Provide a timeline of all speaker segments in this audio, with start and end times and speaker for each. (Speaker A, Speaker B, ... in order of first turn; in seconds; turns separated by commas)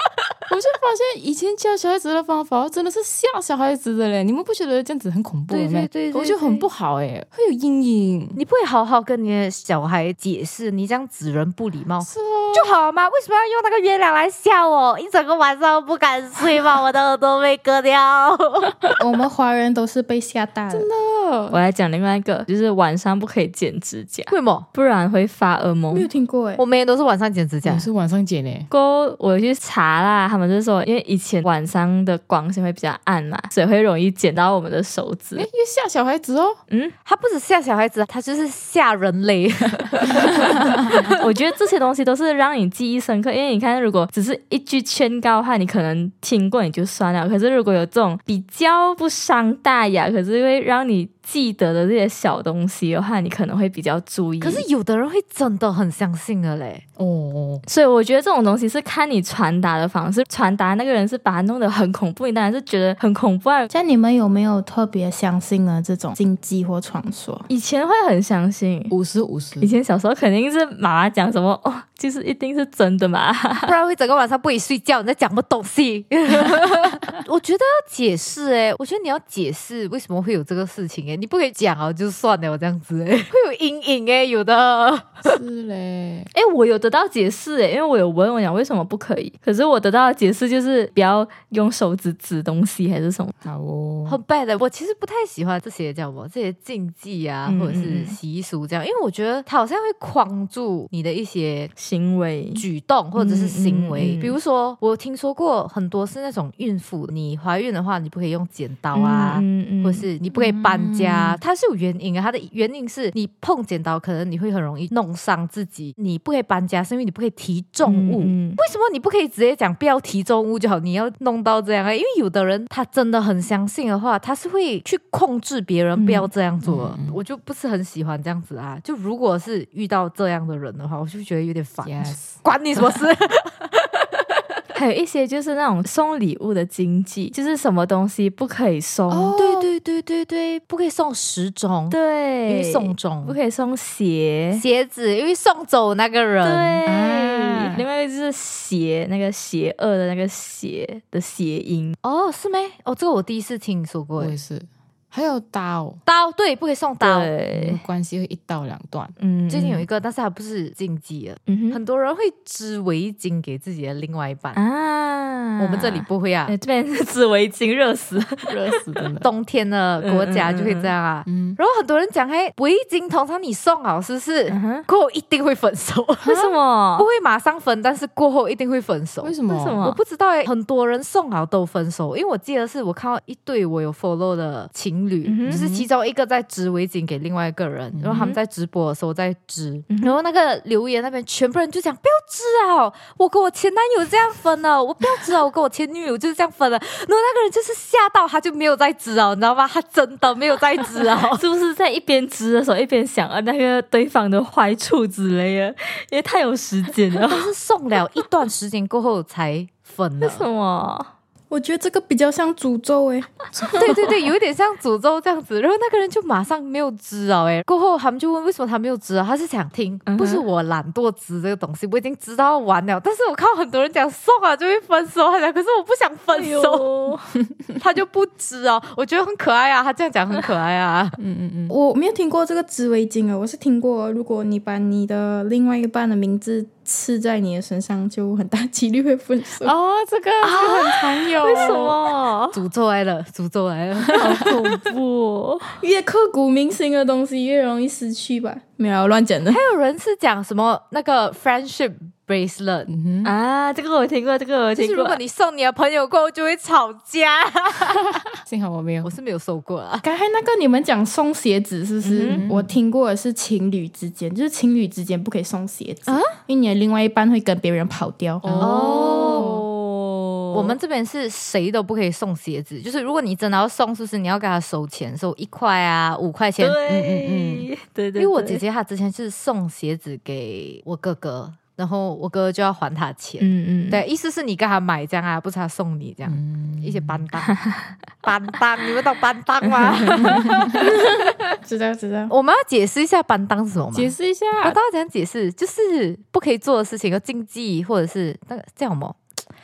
Speaker A: 0.5-8.4, Speaker B: 5.5-6.7, Speaker B: 8.4-18.7, Speaker A: 12.0-12.8, Speaker C: 19.0-20.9, Speaker A: 20.7-21.6, Speaker D: 21.5-26.1, Speaker B: 24.3-24.7, Speaker C: 25.9-26.6, Speaker B: 26.6-27.9, Speaker A: 27.6-28.7, Speaker D: 28.7-35.5, Speaker A: 35.4-36.6, Speaker D: 36.7-37.0, Speaker B: 37.0-41.1, Speaker D: 41.0-54.6, Speaker B: 54.4-56.8, Speaker A: 57.0-57.6, Speaker D: 57.7-63.7, Speaker C: 63.7-67.5, Speaker D: 67.5-68.9, Speaker A: 68.9-69.7, Speaker D: 69.6-73.7, Speaker B: 73.7-85.4, Speaker A: 85.2-86.3, Speaker D: 86.3-93.3, Speaker A: 93.4-94.2, Speaker B: 94.1-101.7, Speaker D: 97.5-98.2, Speaker D: 101.8-102.6, Speaker B: 102.5-134.2, Speaker D: 103.2-104.3, Speaker D: 108.9-110.0, Speaker A: 110.3-111.4, Speaker D: 117.8-118.6, Speaker D: 126.0-126.3, Speaker A: 126.7-127.2, Speaker A: 131.8-132.4, Speaker D: 134.7-139.3, Speaker A: 139.1-139.7, Speaker B: 139.4-143.4, Speaker D: 141.9-144.6, Speaker B: 144.6-146.8, Speaker D: 146.4-152.0, Speaker A: 146.9-147.8, Speaker B: 152.0-154.3, Speaker A: 154.2-156.0, Speaker B: 156.1-157.3, Speaker D: 157.0-157.8, Speaker A: 157.5-159.2, Speaker D: 159.2-159.8, Speaker B: 159.5-164.6, Speaker D: 161.5-161.8, Speaker D: 164.6-168.8, Speaker B: 165.6-166.5, Speaker A: 168.5-169.3, Speaker B: 169.2-201.4, Speaker D: 170.0-170.9, Speaker A: 171.3-171.6, Speaker D: 174.5-174.8, Speaker D: 176.2-177.1, Speaker A: 179.2-179.9, Speaker D: 179.5-180.0, Speaker D: 185.2-185.6, Speaker A: 185.5-185.9, Speaker A: 187.9-188.3, Speaker D: 189.9-190.2, Speaker D: 201.3-207.5, Speaker B: 207.3-210.5, Speaker D: 210.2-211.1, Speaker C: 211.5-213.5, Speaker A: 213.5-214.0, Speaker B: 213.8-226.9, Speaker D: 220.1-220.4, Speaker D: 226.3-227.3, Speaker B: 227.8-231.2, Speaker A: 231.2-231.7, Speaker C: 231.7-239.7, Speaker A: 239.6-242.0, Speaker D: 240.4-242.6, Speaker B: 242.5-244.6, Speaker D: 244.2-245.7, Speaker C: 245.8-249.6, Speaker B: 249.5-252.9, Speaker A: 252.9-253.3, Speaker D: 253.2-255.2, Speaker B: 254.8-258.1, Speaker A: 258.4-259.1, Speaker B: 259.0-260.1, Speaker C: 260.0-268.4, Speaker D: 262.0-262.4, Speaker A: 262.3-262.7, Speaker B: 266.1-266.4, Speaker D: 268.4-270.8, Speaker A: 268.4-269.7, Speaker B: 268.6-269.5, Speaker B: 270.5-276.8, Speaker D: 276.6-278.6, Speaker A: 276.9-277.7, Speaker B: 278.2-287.6, Speaker D: 283.4-284.0, Speaker A: 286.3-287.2, Speaker D: 287.5-287.8, Speaker B: 288.2-291.1, Speaker D: 290.0-290.4, Speaker C: 291.6-292.3, Speaker B: 292.3-299.2, Speaker A: 293.9-294.8